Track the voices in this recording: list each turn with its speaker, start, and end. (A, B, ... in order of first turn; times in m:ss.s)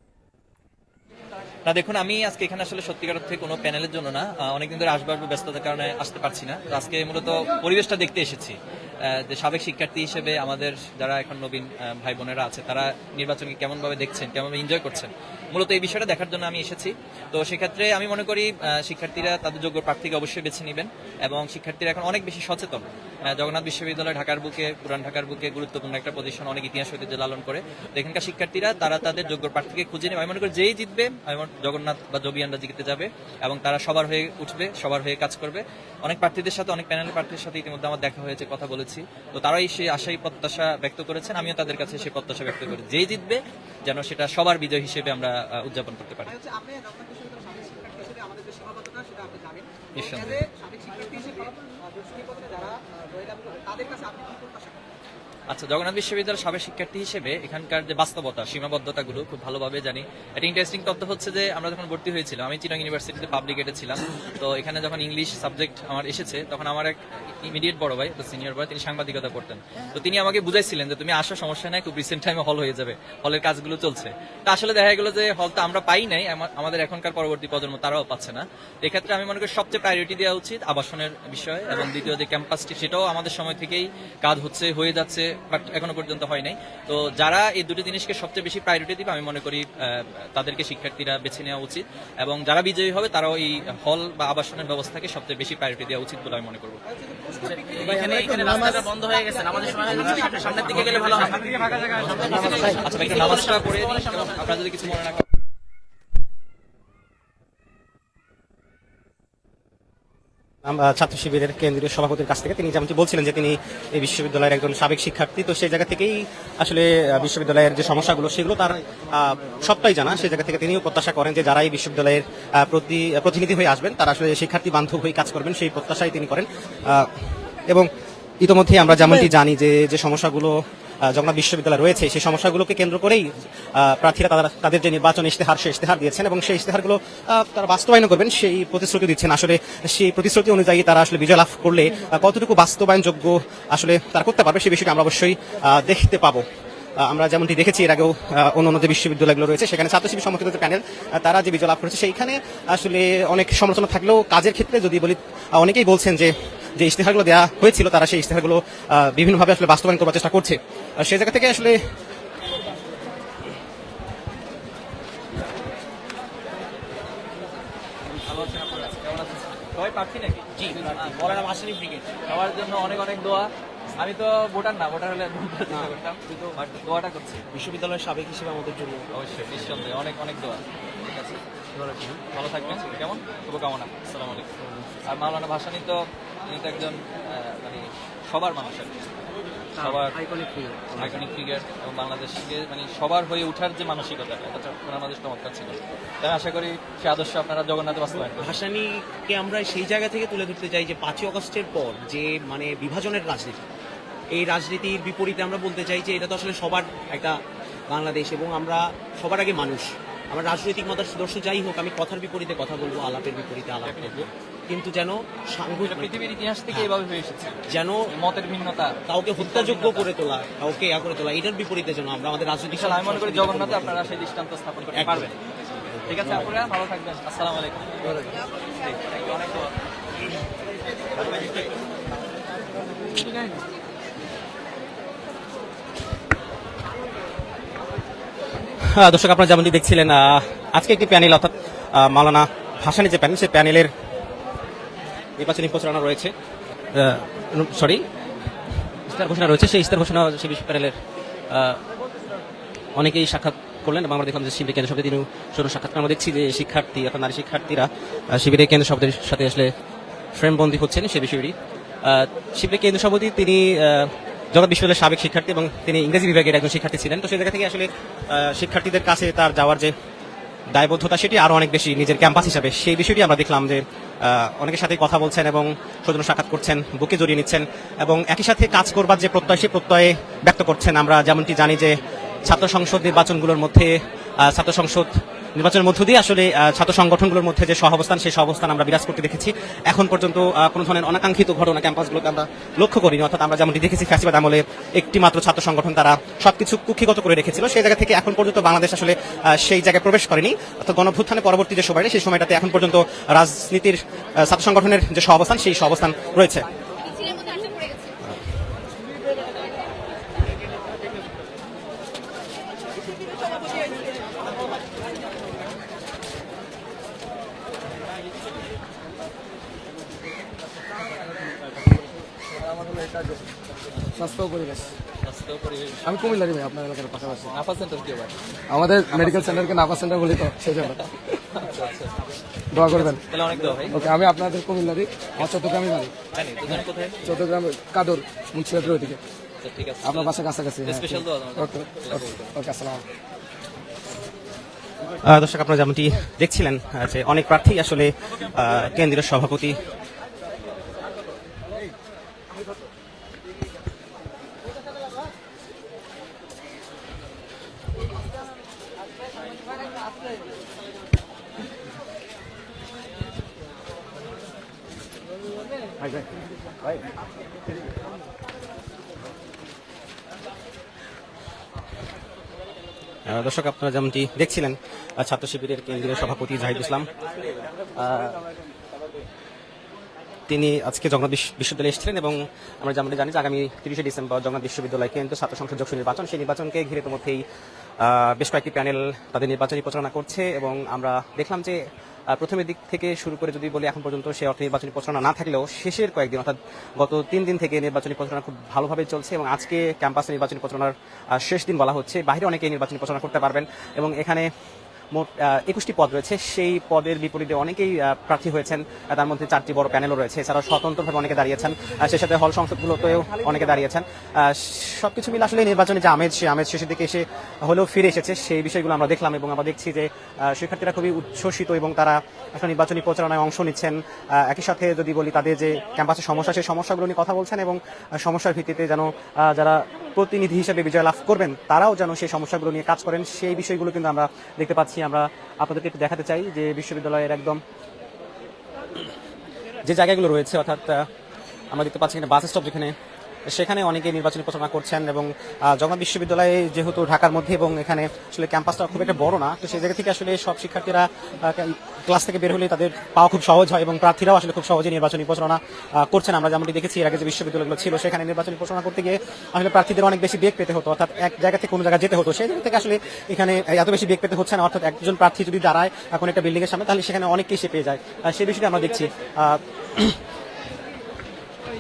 0:01.6-0:46.3 A
0:46.2-0:54.8 B
0:50.0-0:50.4 A
0:55.5-1:36.8 A
1:37.3-1:42.8 B
1:42.1-1:45.2 A
1:50.6-2:07.9 C
2:08.4-2:26.4 C
2:27.0-2:41.8 C
2:48.2-2:51.5 A
2:50.5-2:52.1 D
2:52.3-2:53.5 A
2:54.0-2:57.4 A
2:57.5-2:59.0 D
2:59.1-3:01.4 A
3:01.8-3:02.2 D
3:02.3-3:04.5 A
3:05.1-3:08.9 A
3:09.8-3:11.2 D
3:09.8-3:10.1 A
3:11.0-3:18.5 A
3:18.4-3:23.6 D
3:24.4-3:27.3 D
3:27.9-3:36.9 D
3:33.8-3:34.2 A
3:35.7-3:37.6 A
3:37.7-3:38.1 D
3:38.1-3:40.1 A
3:39.0-3:44.2 D
3:42.7-3:45.3 A
3:44.9-3:45.3 D
3:46.1-3:48.1 A
3:46.1-3:46.4 D
3:49.1-3:49.5 A
3:58.9-4:03.9 C
4:05.4-4:06.3 C
4:06.9-4:08.0 C
4:09.1-4:11.0 C
4:11.5-4:11.8 C
4:13.0-4:19.7 C
4:20.3-4:29.9 C
4:30.7-5:06.6 C
5:24.2-5:24.9 E
5:25.2-5:26.0 A
5:26.1-5:27.5 E
5:27.5-5:28.4 A
5:28.7-5:31.4 E
5:29.1-5:29.7 A
5:31.5-5:32.1 A
5:32.7-5:36.1 E
5:32.9-5:34.0 A
5:36.3-5:37.2 A
5:36.8-5:39.2 E
5:39.6-5:42.6 A
5:40.1-5:43.0 E
5:45.2-5:49.8 C
6:13.3-6:17.1 C
6:18.0-6:18.4 C
6:20.5-6:27.4 C
6:28.0-6:31.8 C
6:32.3-6:44.5 C
6:45.1-7:17.6 C
7:19.8-7:21.1 C
7:21.7-7:22.9 C
7:23.5-7:50.2 C